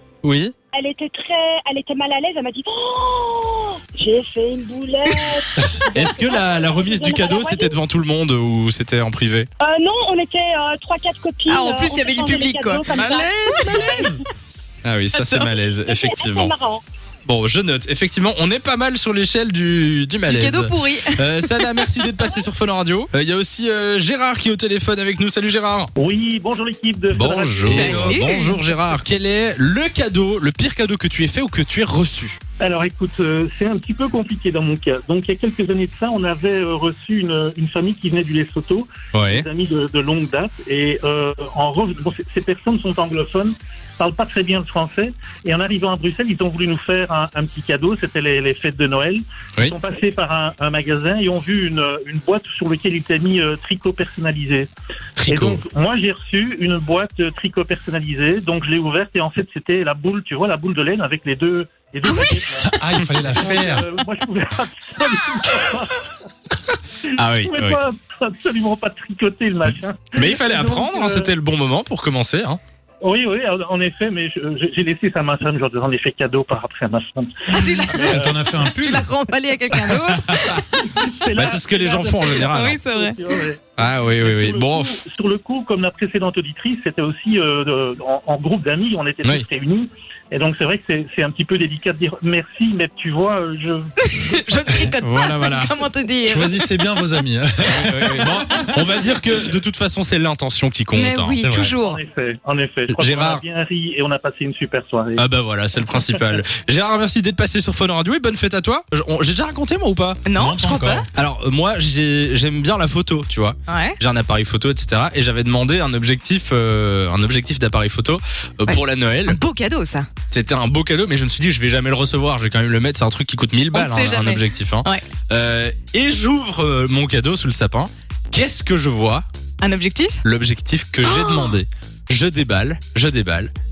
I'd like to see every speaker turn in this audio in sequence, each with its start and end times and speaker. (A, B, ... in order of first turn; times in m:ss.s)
0:00.2-0:00.5 A
0:00.7-0:07.7 B
0:05.1-0:05.4 C
0:05.9-0:09.5 A
0:09.6-0:14.0 B
0:11.5-0:12.8 C
0:12.9-0:14.2 A
0:13.5-0:14.0 C
0:14.8-0:16.5 A
0:15.1-0:15.5 C
0:15.8-0:16.8 B
0:17.2-0:25.9 A
0:20.2-0:22.0 C
0:26.0-0:27.9 D
0:27.1-0:32.4 A
0:27.7-0:28.1 E
0:27.7-0:28.7 C
0:32.6-0:54.7 D
0:39.1-0:39.4 A
0:55.2-0:55.6 A
0:55.3-1:02.7 D
1:02.0-1:02.4 C
1:02.6-1:03.8 E
1:03.2-1:05.9 D
1:07.2-1:07.8 A
1:07.4-1:11.3 D
1:10.2-1:12.6 A
1:13.0-1:18.3 D
1:17.5-1:18.1 C
1:17.9-1:19.1 E
1:18.7-1:20.8 C
1:20.0-1:20.6 A
1:21.0-1:22.3 D
1:21.4-1:22.8 A
1:22.3-1:23.2 C
1:22.8-1:23.6 D
1:23.8-1:24.9 A
1:24.1-1:33.8 D
1:34.0-1:36.8 C
1:35.0-1:35.7 A
1:36.2-1:38.5 E
1:37.6-1:41.4 A
1:40.9-1:42.0 C
1:41.4-1:41.8 E
1:41.9-1:45.2 D
1:42.9-1:43.4 A
1:45.2-1:50.2 A
1:50.2-1:51.1 C
1:50.4-1:51.0 E
1:51.1-1:59.4 A
1:53.7-1:54.0 C
1:58.7-2:00.1 C
2:00.3-2:09.2 A
2:03.7-2:05.0 C
2:09.6-2:10.2 C
2:10.2-2:13.5 A
2:11.0-2:11.6 C